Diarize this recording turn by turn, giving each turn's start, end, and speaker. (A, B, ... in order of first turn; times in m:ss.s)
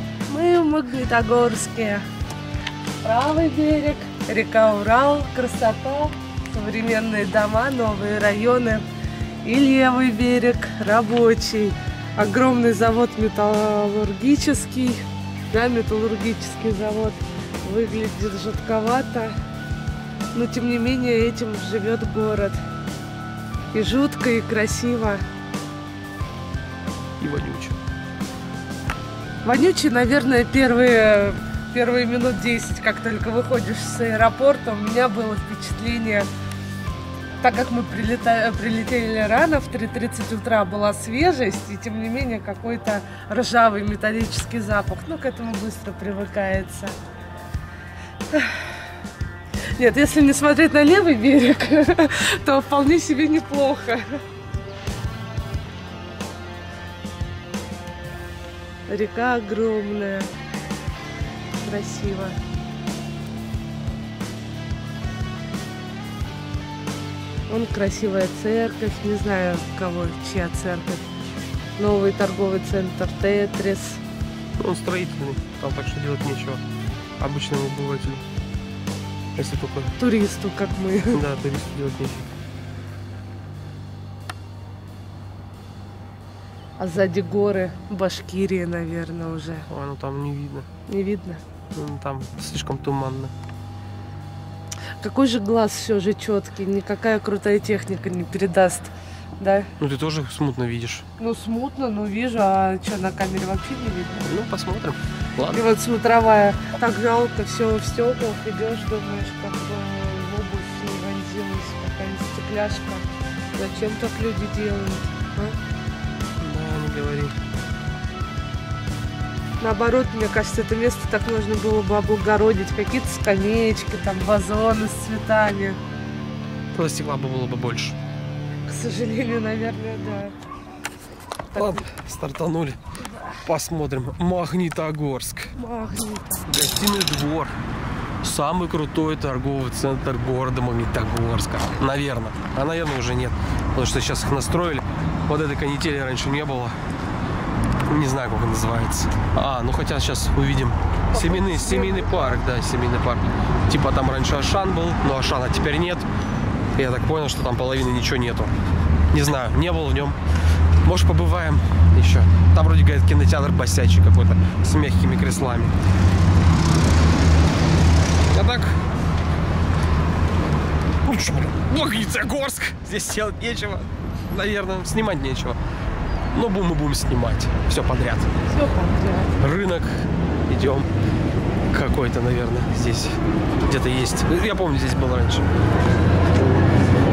0:00.3-0:02.0 A
0:03.0-0:08.8 A
0:09.4-0:19.4 A
0:20.3-0:22.6 A
0:23.7-0:25.2 A
0:27.2-0:27.8 B
0:29.4-0:36.3 A
0:37.4-0:47.0 A
0:48.3-0:48.7 A
0:49.8-0:54.2 A
0:58.9-1:00.3 A
1:01.6-1:02.4 A
1:07.5-1:11.0 A
1:11.8-1:14.0 A
1:14.6-1:16.6 B
1:17.2-1:18.2 B
1:19.4-1:19.9 B
1:20.0-1:21.2 A
1:21.1-1:22.3 B
1:26.8-1:29.7 A
1:29.7-1:30.7 B
1:30.9-1:31.4 A
1:31.7-1:33.3 B
1:35.0-1:39.7 A
1:39.8-1:41.1 B
1:41.2-1:44.3 A
1:44.2-1:45.6 B
1:45.5-1:55.6 A
1:56.4-1:57.4 B
1:59.6-2:05.8 A
2:06.7-2:08.0 B
2:08.7-2:10.3 A
2:11.5-2:11.8 A
2:11.5-2:12.8 B
2:13.0-2:13.4 A
2:13.4-2:15.5 B
2:15.6-2:16.6 A
2:16.5-2:17.6 B
2:18.2-2:26.8 B
2:27.9-2:36.1 B
2:31.1-2:32.4 A
2:36.8-2:38.5 B
2:39.1-2:40.2 B
2:40.8-2:45.8 B
2:48.3-2:48.8 B
2:51.0-2:55.6 B
2:56.3-2:58.3 B
2:58.5-2:59.4 A
2:59.4-3:00.9 B
3:01.7-3:05.5 B